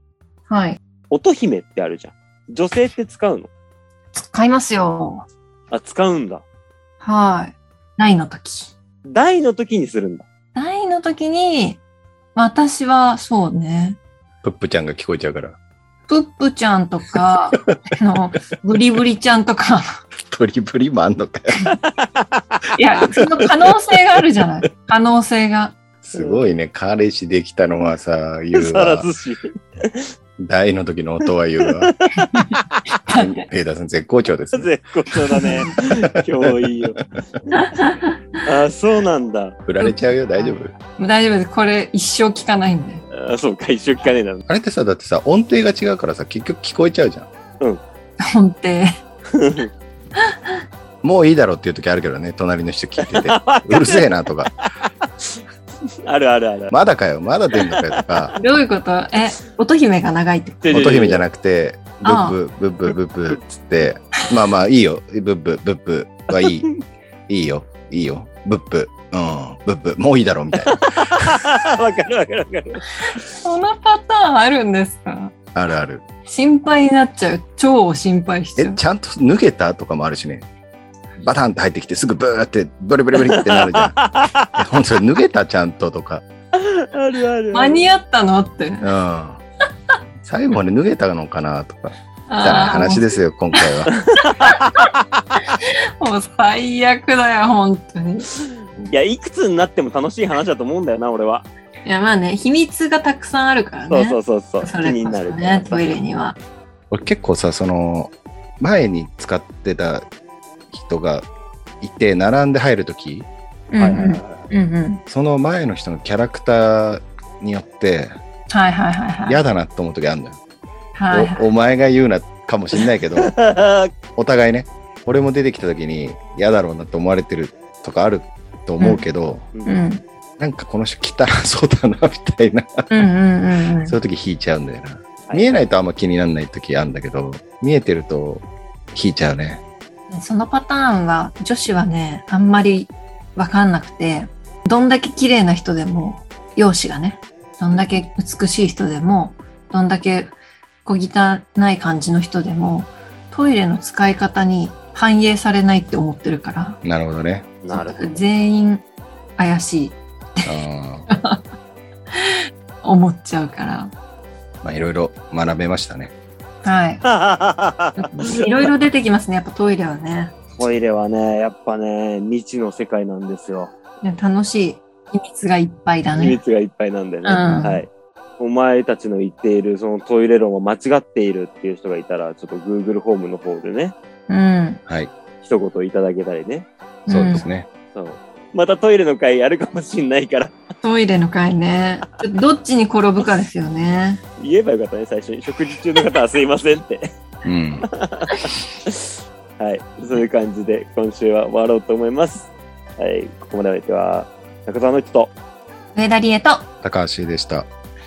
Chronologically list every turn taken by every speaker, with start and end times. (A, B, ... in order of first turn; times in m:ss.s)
0:00.5-0:00.8 A
0:01.1-0:03.5 B
0:04.1-0:05.3 A
0:05.7-0:06.4 B
0:07.0-0:08.7 A
0:09.0-0:10.2 B
0:10.6-0:11.8 A
0:12.4-0:14.0 A
0:14.4-0:15.6 C
0:16.1-0:20.0 A
0:17.5-0:17.9 C
0:20.2-0:21.7 C
0:22.2-0:22.6 B
0:22.8-0:25.8 A
0:26.0-0:29.1 C
0:26.1-0:26.4 B
0:28.6-0:30.1 B
0:30.4-0:31.9 C
0:31.6-0:32.8 B
0:32.3-0:33.4 A
0:33.1-0:34.7 C
0:34.5-0:37.0 B
0:35.3-0:37.4 C
0:35.4-0:35.7 A
0:37.5-0:38.4 A
0:38.4-0:39.6 B
0:39.6-0:40.7 C
0:39.8-0:43.0 A
0:43.1-0:44.5 B
0:44.5-0:47.3 C
0:48.2-0:48.9 A
0:49.3-0:49.7 B
0:51.0-0:54.5 C
0:53.0-0:54.1 B
0:54.9-0:55.4 B
0:56.0-0:56.7 B
0:56.7-0:58.3 C
0:57.6-0:58.4 B
0:58.4-1:00.6 A
1:00.6-1:01.2 B
1:00.7-1:06.7 C
1:02.0-1:02.4 A
1:06.3-1:06.7 B
1:07.3-1:11.4 C
1:10.6-1:12.8 B
1:13.1-1:15.3 A
1:15.5-1:16.0 C
1:16.3-1:18.8 A
1:18.6-1:20.5 C
1:21.2-1:26.2 C
1:23.2-1:24.5 B
1:26.6-1:27.8 B
1:27.5-1:28.9 A
1:28.8-1:29.4 C
1:30.2-1:33.9 C
1:32.3-1:33.7 A
1:34.1-1:35.2 B
1:35.4-1:38.3 A
1:38.5-1:41.5 B
1:41.8-1:46.4 A
1:43.9-1:45.9 B
1:46.9-1:50.1 C
1:50.7-1:51.3 C
1:51.8-1:53.3 C
1:53.7-1:55.0 A
1:53.8-1:54.4 B
1:55.1-1:58.2 C
1:58.5-1:59.4 A
1:59.3-2:00.4 C
2:01.0-2:01.5 A
2:01.1-2:03.3 C
2:02.8-2:03.9 B
2:04.2-2:09.5 C
2:09.5-2:09.8 B
2:09.7-2:10.0 A
2:10.4-2:12.9 C
2:12.9-2:14.0 A
2:13.8-2:19.6 C
2:20.1-2:30.3 A
2:30.8-2:36.8 A
2:36.8-2:37.5 C
2:37.6-2:38.2 B
2:37.7-2:38.8 A
2:39.4-2:40.5 A
2:40.5-2:41.1 C
2:41.1-2:41.4 A
2:42.1-2:43.9 A
2:44.6-2:46.1 C
2:46.6-2:47.0 A
2:47.0-2:48.7 B
2:48.0-2:50.4 A
2:50.6-2:53.7 B
2:54.0-2:56.4 A
2:56.2-3:04.0 B
2:57.2-2:57.8 A
3:04.3-3:04.8 A
3:05.4-3:06.7 B
3:07.1-3:07.5 A
3:07.1-3:07.7 C
3:07.9-3:10.6 B
3:10.8-3:14.2 A
3:14.4-3:17.1 B
3:17.4-3:17.9 C
3:17.8-3:25.3 B
3:26.0-3:26.7 A
3:26.8-3:27.7 C